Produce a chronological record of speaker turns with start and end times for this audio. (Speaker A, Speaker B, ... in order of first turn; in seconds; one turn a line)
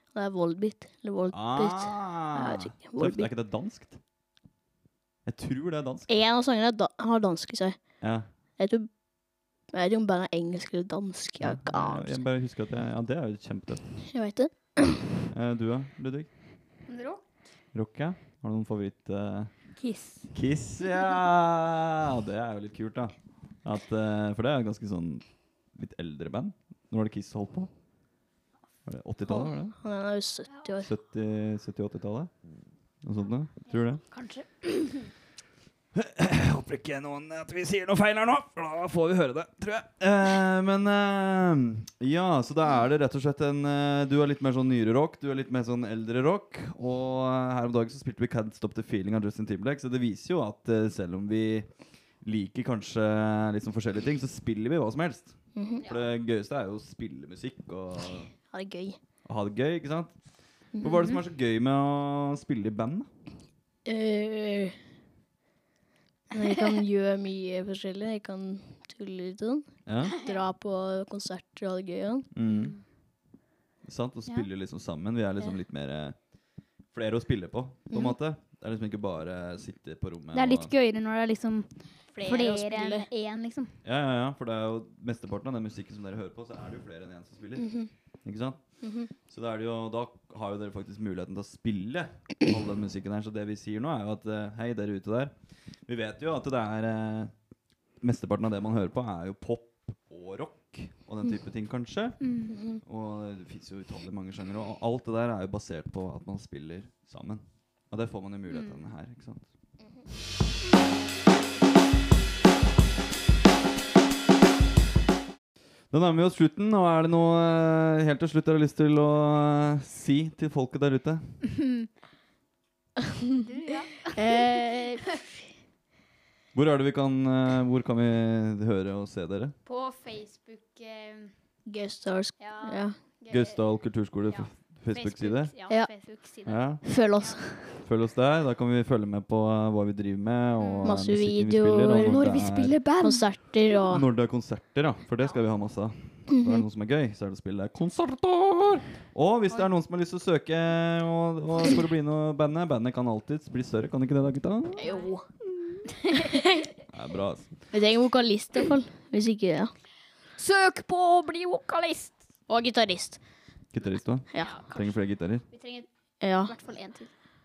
Speaker A: 0.1-3.3
Speaker B: 1.3-4.0
Speaker B: 5.2-6.1
Speaker A: 6.1-7.8
Speaker B: 8.0-8.3
Speaker A: 8.6-8.9
Speaker A: 9.7-12.2
Speaker B: 11.4-13.8
Speaker A: 14.1-15.1
Speaker B: 15.3-16.3
Speaker C: 16.9-17.2
Speaker B: 17.7-19.5
Speaker C: 19.8-20.3
Speaker B: 20.3-27.7
Speaker B: 28.9-29.8
Speaker A: 29.8-30.9
Speaker B: 30.8-32.3
Speaker B: 33.0-34.0
Speaker C: 33.7-35.1
Speaker B: 35.9-51.7
Speaker B: 52.2-58.3
Speaker A: 55.5-55.8
Speaker A: 58.5-59.0
Speaker B: 59.2-60.2
Speaker A: 60.7-61.1
Speaker B: 60.7-63.1
Speaker A: 63.8-64.8
Speaker A: 66.3-72.3
Speaker B: 69.8-70.2
Speaker B: 72.3-72.8
Speaker C: 72.4-72.8
Speaker B: 73.8-76.3
Speaker B: 76.9-80.7
Speaker A: 77.9-78.2
Speaker C: 80.3-83.8
Speaker A: 82.1-83.1
Speaker B: 83.8-97.3
Speaker A: 87.6-87.9
Speaker A: 88.8-89.1
Speaker B: 98.0-109.5
Speaker C: 102.2-102.6
Speaker A: 102.5-102.8
Speaker C: 108.5-108.8
Speaker B: 115.9-121.4
Speaker C: 123.4-124.6
Speaker A: 124.1-125.2
Speaker B: 126.5-129.5
Speaker C: 129.7-131.3
Speaker A: 131.7-132.9
Speaker C: 132.4-133.6
Speaker B: 133.3-135.5
Speaker C: 134.2-137.4
Speaker B: 136.4-136.8
Speaker A: 136.8-137.8
Speaker B: 137.7-142.8
Speaker C: 140.6-141.0
Speaker A: 140.8-144.0
Speaker C: 142.0-143.2
Speaker B: 143.8-154.9
Speaker A: 154.8-155.2
Speaker C: 154.8-155.1
Speaker A: 156.2-156.6
Speaker B: 156.9-157.5
Speaker A: 157.7-159.7
Speaker C: 160.3-162.2
Speaker A: 162.5-163.2
Speaker B: 163.7-165.4
Speaker A: 164.3-164.6
Speaker C: 164.3-164.9
Speaker C: 165.5-167.1
Speaker A: 166.2-166.6